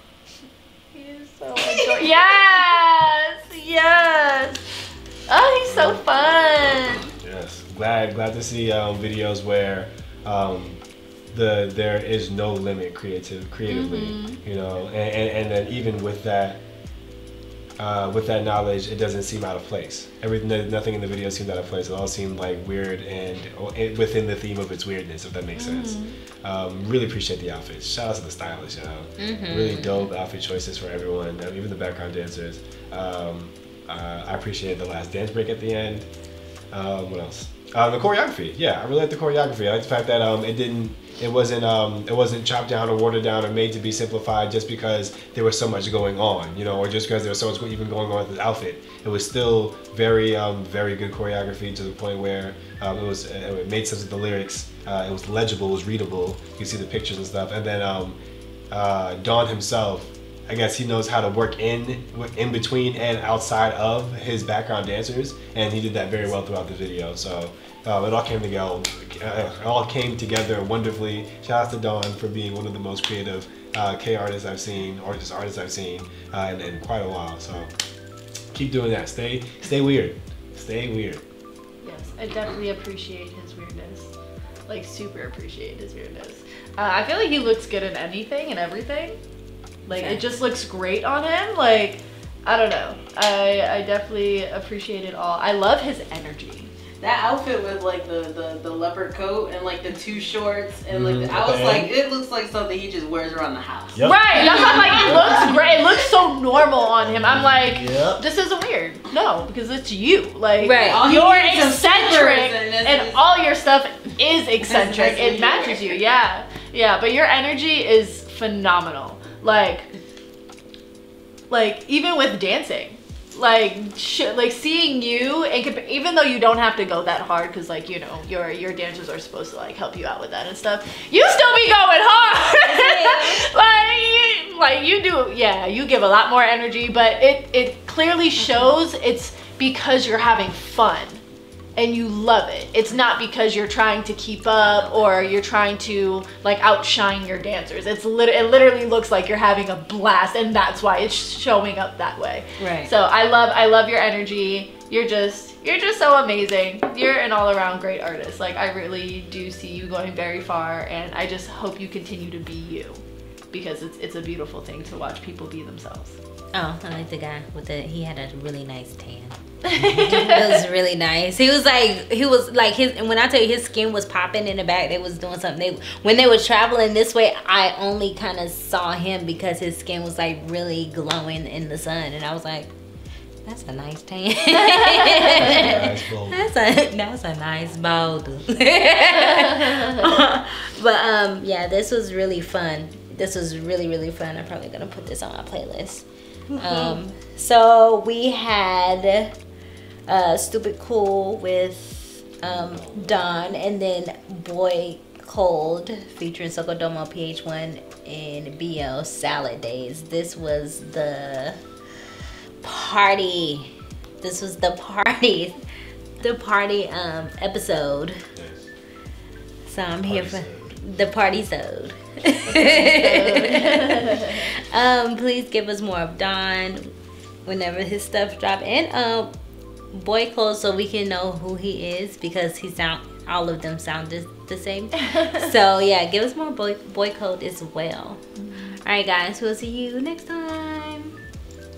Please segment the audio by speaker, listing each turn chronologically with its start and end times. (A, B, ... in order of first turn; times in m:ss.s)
0:00.9-0:04.7 A
0:05.3-0:07.1 A
0:05.6-0:06.0 B
0:07.2-0:10.8 B
0:11.3-0:16.6 B
0:13.7-0:14.4 A
0:17.8-0:36.1 B
0:25.6-0:26.2 A
0:29.2-0:30.1 C
0:36.7-0:58.2 B
0:58.7-1:17.7 B
1:18.5-1:21.2 B
1:21.8-1:24.1 A
1:24.7-1:29.2 A
1:29.9-1:36.7 A
1:29.9-1:30.2 C
1:37.0-1:45.5 D
1:40.9-1:41.9 B
1:44.0-1:44.3 B
1:44.0-1:59.9 A
1:44.8-1:45.4 B
1:47.0-1:48.2 B
1:50.6-1:51.1 C
1:50.8-1:53.2 D
1:54.6-1:56.1 D
2:01.5-2:21.2 A
2:12.6-2:13.4 C
2:18.4-2:18.8 C
2:21.8-2:46.2 A
2:24.6-2:25.3 C
2:32.6-2:32.9 C
2:46.5-3:02.7 C
2:49.6-2:50.6 A
3:03.4-3:19.3 C
3:05.0-3:05.3 A
3:05.2-3:06.5 B
3:20.1-3:31.6 C
3:22.5-3:23.3 B
3:32.6-3:35.6 C
3:36.2-3:38.2 C
3:38.4-3:38.7 B
3:39.6-3:46.9 C
3:40.0-3:40.7 B
3:42.5-3:42.8 B
3:42.8-3:44.5 A
3:47.4-3:49.3 C
3:49.9-3:58.2 C
3:58.8-4:01.2 C